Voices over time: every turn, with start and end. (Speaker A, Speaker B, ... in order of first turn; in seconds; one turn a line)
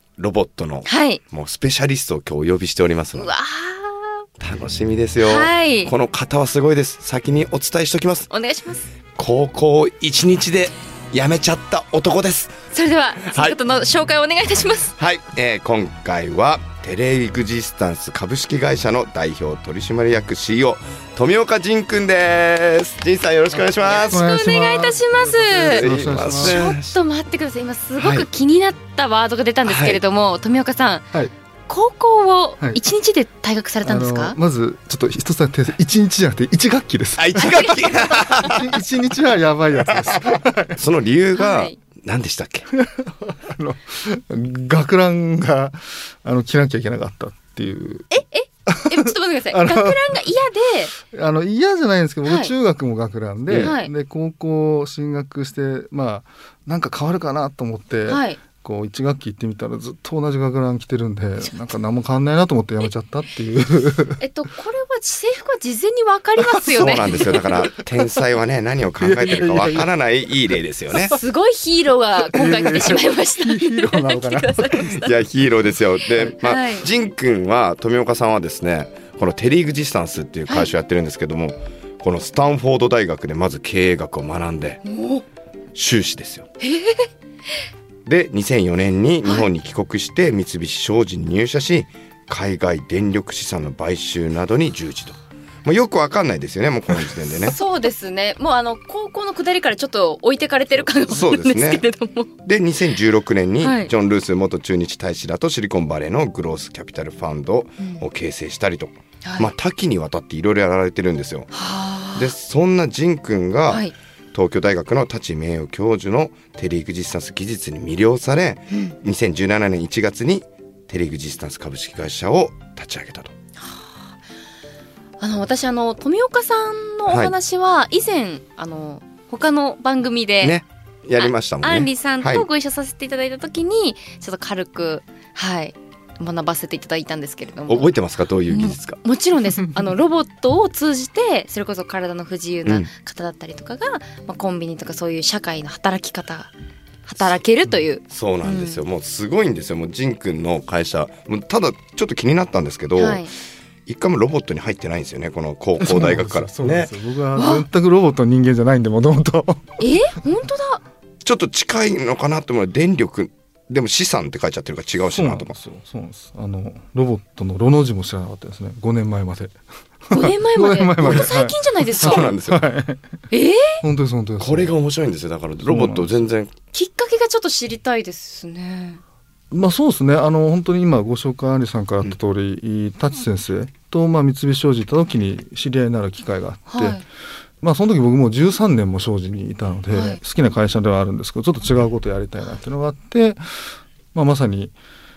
Speaker A: 0.2-3.3
Speaker B: 0.8-1.2
Speaker B: 3.1-4.3
Speaker A: 4.4-8.3
Speaker B: 5.2-5.9
Speaker B: 8.3-8.9
Speaker A: 9.2-12.6
Speaker B: 12.7-14.9
Speaker A: 13.2-13.6
Speaker A: 15.0-24.2
Speaker B: 23.8-34.4
Speaker C: 24.0-26.6
Speaker A: 25.7-27.0
Speaker A: 28.0-28.2
Speaker A: 29.6-30.0
Speaker C: 33.8-40.8
Speaker A: 37.2-38.6
Speaker B: 37.4-38.5
Speaker A: 40.0-42.7
Speaker B: 41.4-41.8
Speaker C: 42.7-48.1
Speaker B: 48.1-50.9
Speaker C: 48.7-50.2
Speaker C: 51.0-64.2
Speaker B: 52.2-52.5
Speaker B: 53.5-53.9
Speaker B: 58.1-58.4
Speaker B: 64.2-67.5
Speaker C: 66.5-67.7
Speaker A: 66.8-71.2
Speaker C: 69.0-69.9
Speaker B: 71.0-75.2
Speaker C: 72.3-75.1
Speaker A: 75.0-84.8
Speaker B: 76.2-76.9
Speaker B: 84.8-85.2
Speaker A: 85.8-86.5
Speaker B: 86.6-87.1
Speaker A: 88.1-97.6
Speaker B: 89.2-89.5
Speaker B: 97.4-102.3
Speaker A: 100.9-101.8
Speaker A: 102.5-111.5
Speaker B: 103.6-103.9
Speaker B: 107.8-108.0
Speaker B: 109.2-109.5
Speaker B: 111.5-112.3
Speaker A: 112.2-123.3
Speaker B: 113.7-113.9
Speaker B: 118.7-119.0
Speaker B: 123.6-124.0
Speaker B: 125.2-130.6
Speaker A: 127.1-127.3
Speaker A: 130.4-132.5
Speaker B: 131.2-137.9
Speaker A: 137.7-139.0
Speaker B: 138.5-146.5
Speaker B: 147.1-148.8
Speaker A: 148.1-153.3
Speaker B: 153.0-153.3
Speaker A: 153.9-156.9
Speaker C: 155.8-159.8
Speaker B: 157.3-157.7
Speaker B: 159.8-160.8
Speaker A: 161.2-165.6
Speaker C: 165.1-173.2
Speaker B: 170.1-172.3
Speaker A: 171.0-171.3
Speaker A: 172.0-172.6
Speaker B: 173.3-173.8
Speaker C: 173.8-174.8
Speaker A: 174.4-176.5
Speaker C: 175.6-176.2
Speaker B: 176.7-179.0
Speaker C: 179.5-187.1
Speaker B: 186.7-187.0
Speaker C: 187.6-194.8
Speaker B: 189.9-190.2